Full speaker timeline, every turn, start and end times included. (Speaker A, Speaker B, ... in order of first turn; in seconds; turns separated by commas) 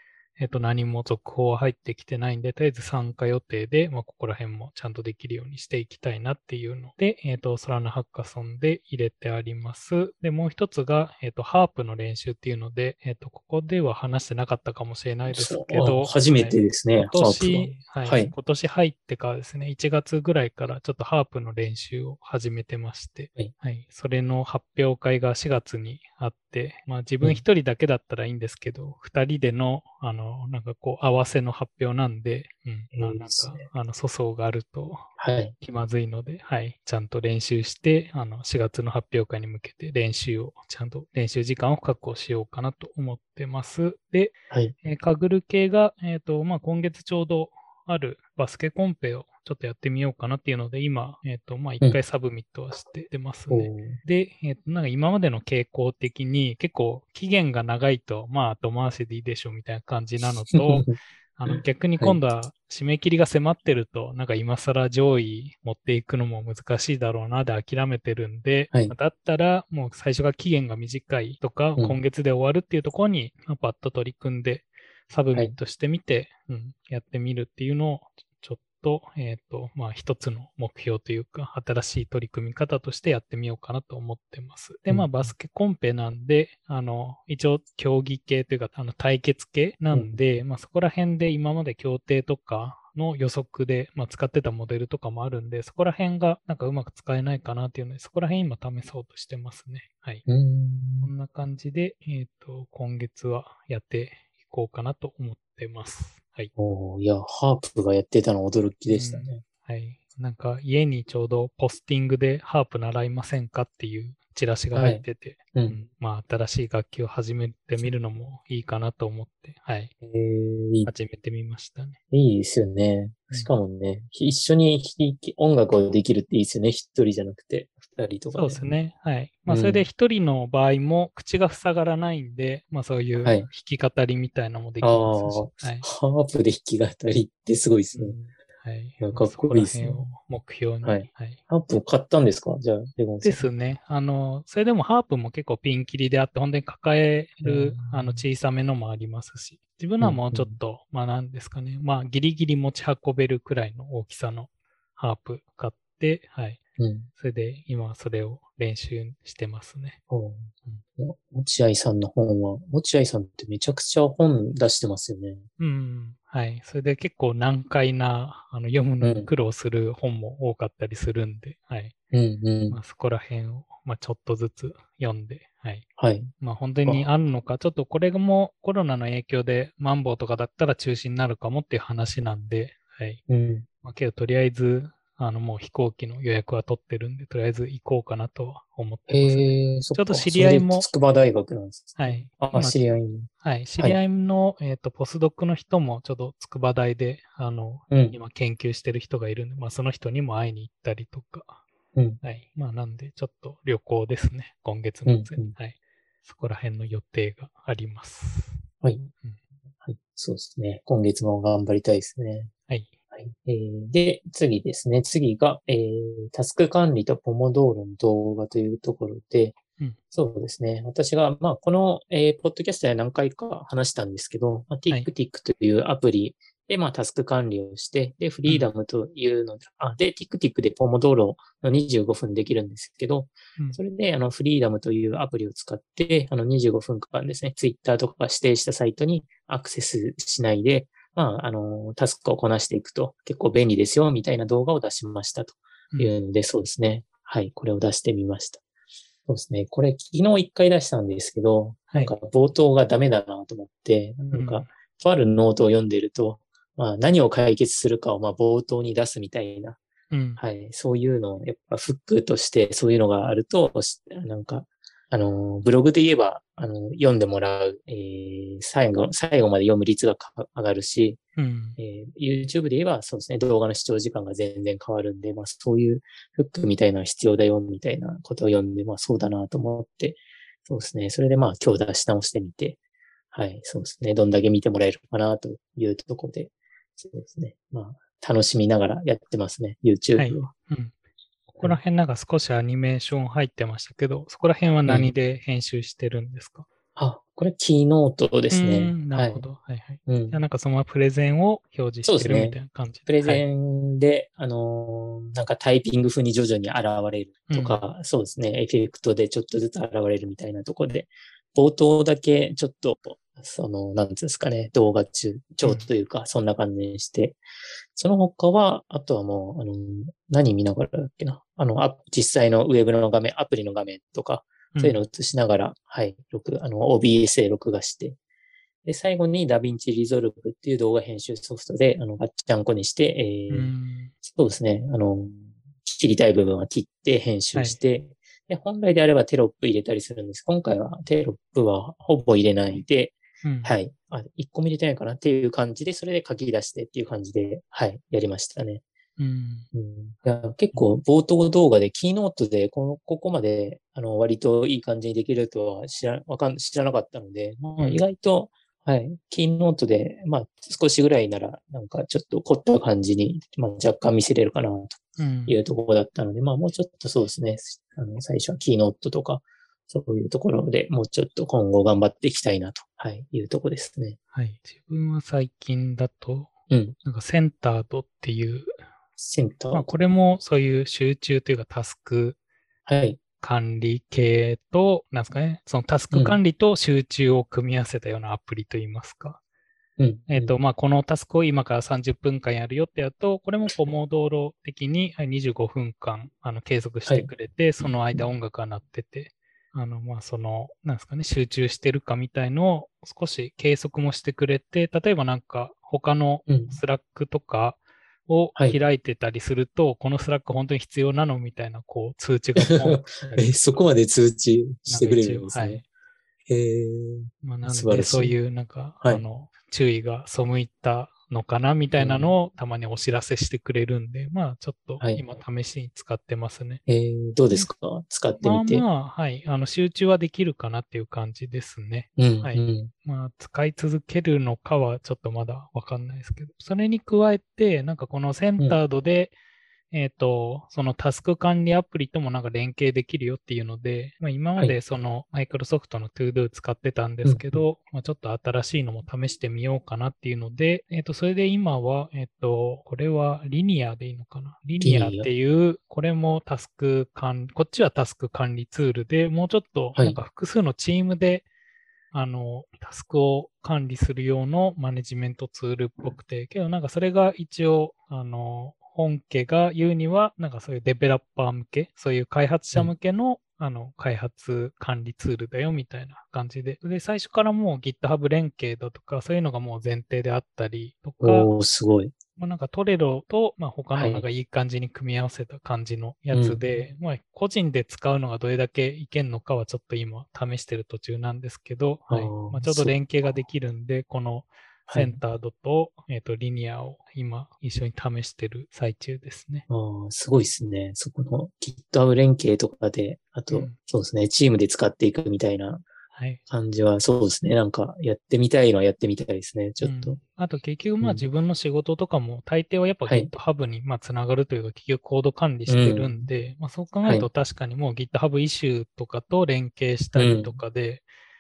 Speaker A: 0.4-100.2, Speaker B: 15.3-18.3, Speaker B: 32.9-33.7, Speaker B: 35.2-35.5, Speaker B: 53.5-54.0, Speaker B: 60.5-61.0, Speaker B: 61.5-62.2, Speaker B: 84.9-85.3, Speaker B: 89.9-90.2, Speaker B: 100.3-101.1, Speaker A: 101.0-106.5, Speaker B: 106.6-109.4, Speaker A: 108.9-119.9, Speaker B: 114.8-115.0, Speaker B: 120.0-120.9, Speaker A: 120.9-122.0, Speaker B: 122.1-128.7, Speaker A: 128.3-135.8, Speaker B: 129.5-129.8, Speaker B: 133.2-133.5, Speaker B: 134.8-138.2, Speaker A: 137.9-141.4, Speaker B: 139.0-140.1, Speaker B: 140.8-143.4, Speaker A: 143.2-156.6, Speaker B: 147.4-148.2, Speaker B: 150.0-150.6, Speaker B: 156.8-157.1, Speaker A: 157.2-160.0, Speaker B: 160.1-165.5, Speaker A: 165.6-171.9, Speaker B: 169.0-169.3, Speaker B: 172.1-172.8, Speaker A: 172.7-175.9, Speaker B: 176.0-176.3, Speaker A: 176.4-183.2, Speaker B: 183.3-183.7, Speaker A: 183.8-190.9, Speaker B: 189.1-194.0, Speaker A: 192.0-192.8, Speaker A: 193.4-201.6, Speaker B: 197.9-198.2, Speaker B: 201.9-202.2, Speaker A: 202.2-208.6, Speaker B: 205.1-205.6, Speaker B: 208.8-209.1, Speaker B: 209.8-212.5, Speaker B: 213.1-219.6, Speaker B: 220.1-248.6, Speaker B: 249.3-259.8, Speaker A: 254.3-254.7, Speaker A: 260.1-260.4, Speaker B: 260.4-271.2, Speaker A: 271.4-271.8, Speaker B: 271.8-282.8, Speaker B: 283.3-290.5, Speaker A: 290.2-290.9, Speaker A: 291.5-296.7, Speaker B: 294.9-295.1, Speaker B: 297.0-299.4, Speaker A: 298.5-303.4, Speaker B: 300.1-300.4, Speaker B: 302.1-317.4, Speaker A: 307.5-307.8, Speaker A: 315.6-315.9, Speaker B: 317.9-328.2, Speaker A: 324.7-325.0, Speaker B: 328.9-348.8, Speaker A: 333.5-334.1, Speaker A: 343.4-343.7, Speaker A: 349.2-349.7, Speaker B: 349.7-374.2, Speaker A: 365.2-365.6, Speaker A: 374.3-376.5, Speaker B: 376.7-377.0, Speaker A: 377.0-378.8, Speaker B: 379.2-379.9, Speaker A: 379.7-382.4, Speaker B: 382.9-383.2, Speaker A: 383.4-389.4, Speaker B: 386.1-386.4, Speaker B: 390.0-390.5, Speaker A: 390.3-413.6, Speaker B: 406.5-406.8, Speaker B: 412.6-415.8, Speaker A: 414.9-415.8, Speaker B: 416.5-418.3, Speaker A: 417.4-426.8, Speaker B: 422.0-422.3, Speaker B: 426.9-428.9, Speaker A: 428.4-439.3, Speaker B: 432.2-432.9, Speaker A: 439.9-461.5, Speaker B: 447.2-447.6, Speaker B: 454.8-455.3, Speaker A: 462.1-481.5, Speaker B: 481.2-482.1, Speaker A: 482.4-499.7, Speaker B: 483.9-484.3, Speaker B: 486.3-486.6, Speaker B: 492.1-493.0, Speaker B: 494.9-495.2, Speaker B: 499.7-505.9, Speaker A: 503.5-503.8, Speaker A: 506.1-506.4, Speaker B: 506.5-510.2, Speaker A: 509.8-521.1, Speaker B: 511.0-511.2, Speaker B: 515.7-516.2, Speaker B: 520.1-520.6